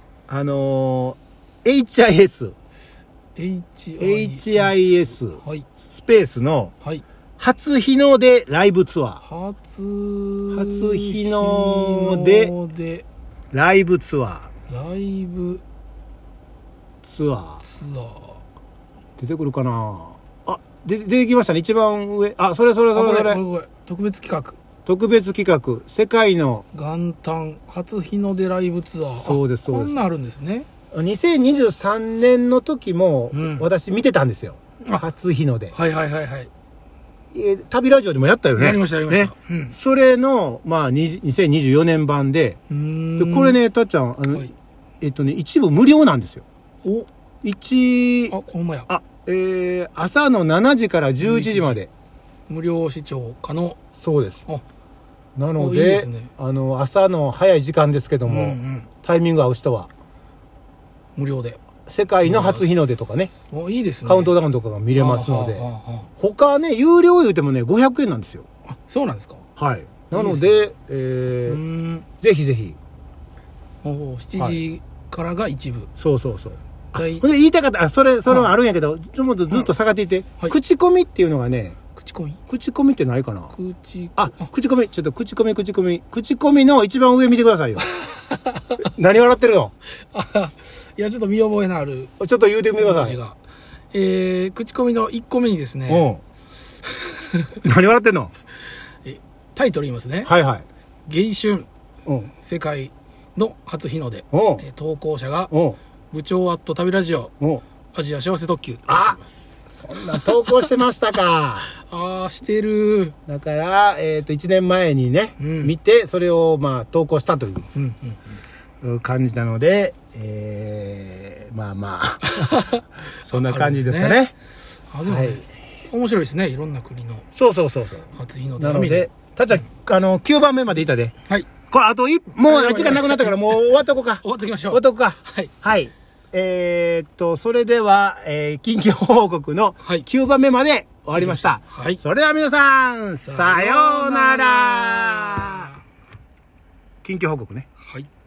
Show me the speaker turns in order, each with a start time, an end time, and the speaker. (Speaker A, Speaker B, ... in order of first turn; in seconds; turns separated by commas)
Speaker A: 0.3-2.6, Speaker B: 3.4-5.7, Speaker A: 4.0-6.7, Speaker A: 7.4-9.2, Speaker B: 9.2-13.1, Speaker A: 10.5-12.5, Speaker A: 13.5-14.5, Speaker B: 14.7-15.6, Speaker A: 17.0-17.6, Speaker B: 17.6-18.4, Speaker A: 19.2-23.4, Speaker B: 22.9-24.6, Speaker A: 24.9-26.7, Speaker B: 26.7-30.7, Speaker A: 29.2-30.0, Speaker A: 30.9-35.8, Speaker B: 33.3-33.7, Speaker B: 35.7-36.5, Speaker A: 37.3-42.6, Speaker B: 38.5-39.8, Speaker B: 42.7-43.6, Speaker A: 43.2-46.5, Speaker A: 47.4-48.4, Speaker B: 48.3-48.9, Speaker A: 48.9-51.9, Speaker B: 51.2-51.8, Speaker B: 52.5-53.8, Speaker A: 53.9-54.4, Speaker A: 55.4-59.9, Speaker B: 55.6-56.3, Speaker B: 58.3-58.9, Speaker B: 61.2-61.6, Speaker A: 61.9-63.3, Speaker B: 62.2-62.7, Speaker B: 63.5-64.3, Speaker A: 64.0-68.5, Speaker B: 64.9-66.1, Speaker B: 68.7-69.5, Speaker A: 69.6-71.6, Speaker B: 70.1-70.7, Speaker B: 71.5-72.1, Speaker A: 72.1-72.8, Speaker B: 73.8-75.9, Speaker A: 76.0-81.8, Speaker B: 76.9-77.3, Speaker B: 78.3-78.5, Speaker B: 82.0-82.4, Speaker A: 82.5-83.5, Speaker B: 83.5-84.5, Speaker A: 84.2-87.9, Speaker B: 87.8-88.9, Speaker A: 88.8-89.7, Speaker B: 90.1-92.1, Speaker A: 92.2-93.2, Speaker B: 92.8-93.4, Speaker B: 93.9-96.1, Speaker A: 95.9-96.2, Speaker B: 96.8-97.6, Speaker A: 97.6-98.3, Speaker B: 99.0-100.3, Speaker A: 100.2-100.7, Speaker B: 101.1-101.7, Speaker A: 102.0-102.3, Speaker B: 102.3-105.5, Speaker A: 104.3-104.7, Speaker A: 105.5-105.8, Speaker B: 106.1-107.3, Speaker A: 107.4-107.7, Speaker B: 107.9-110.3, Speaker A: 108.9-111.7, Speaker B: 111.8-113.2, Speaker A: 113.3-117.7, Speaker B: 115.4-115.7, Speaker B: 117.7-118.2, Speaker A: 118.8-124.3, Speaker B: 122.2-124.2, Speaker B: 124.9-127.3, Speaker A: 125.1-125.4, Speaker A: 127.3-145.7, Speaker B: 128.2-129.1, Speaker B: 132.4-133.6, Speaker B: 134.2-135.5, Speaker B: 141.2-142.0, Speaker B: 143.2-145.8, Speaker A: 147.0-147.7